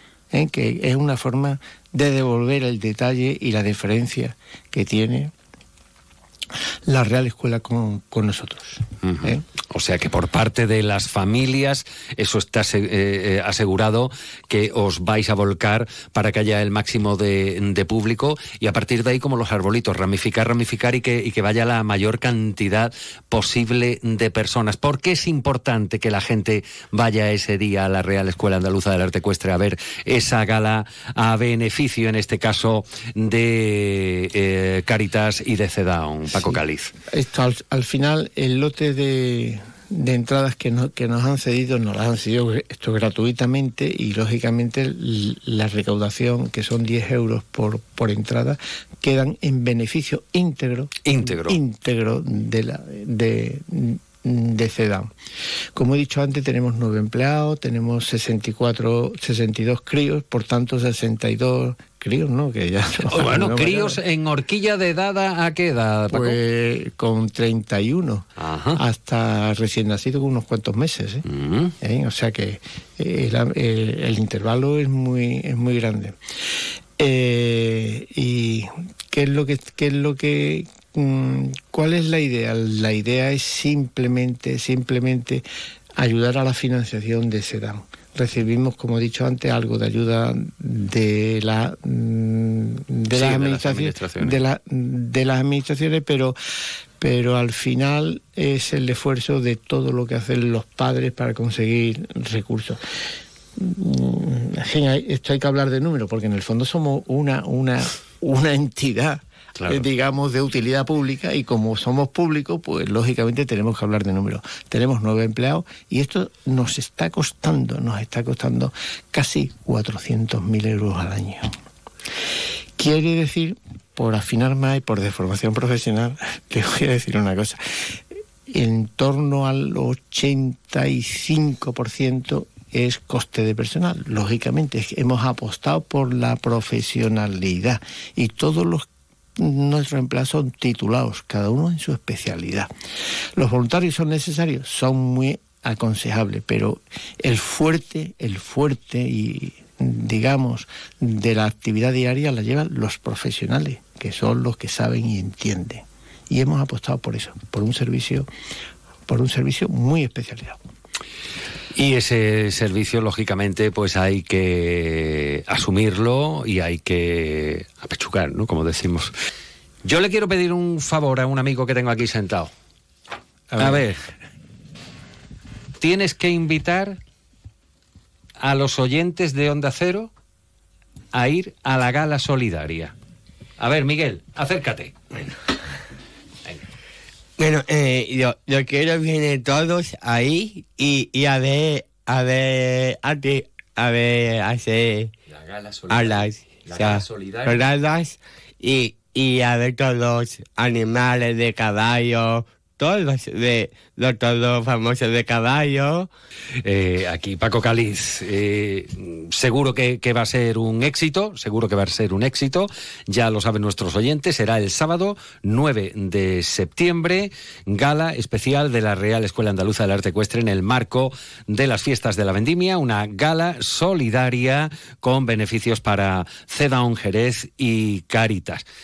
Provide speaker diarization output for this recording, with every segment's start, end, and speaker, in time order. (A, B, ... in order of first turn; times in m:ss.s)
0:00.3-0:05.3 A
0:06.9-0:09.4 A
0:09.0-0:36.9 B
0:37.1-0:55.1 A
0:51.0-0:51.6 B
0:55.7-1:04.0 A
1:03.1-1:06.4 B
1:06.1-1:11.2 A
1:08.4-1:08.8 B
1:11.2-1:11.7 B
1:11.8-1:16.2 A
1:17.0-1:25.4 A
1:26.0-1:36.4 A
1:33.1-1:34.4 B
1:37.0-1:42.8 A
1:43.6-2:01.5 A
1:49.6-1:49.8 B
2:02.8-2:07.6 A
2:08.5-2:18.8 A
2:19.4-2:22.7 A
2:23.4-2:38.3 A
2:39.1-2:40.6 A
2:41.7-2:49.1 B
2:49.8-2:52.5 B
2:53.5-2:53.9 A
2:53.6-2:54.0 B
2:55.8-2:57.0 B
2:58.4-3:00.1 B
3:01.1-3:02.9 B
3:03.6-3:05.0 B
3:07.4-3:15.1 C
3:15.3-3:17.6 B
3:15.9-3:26.1 C
3:26.6-3:48.6 B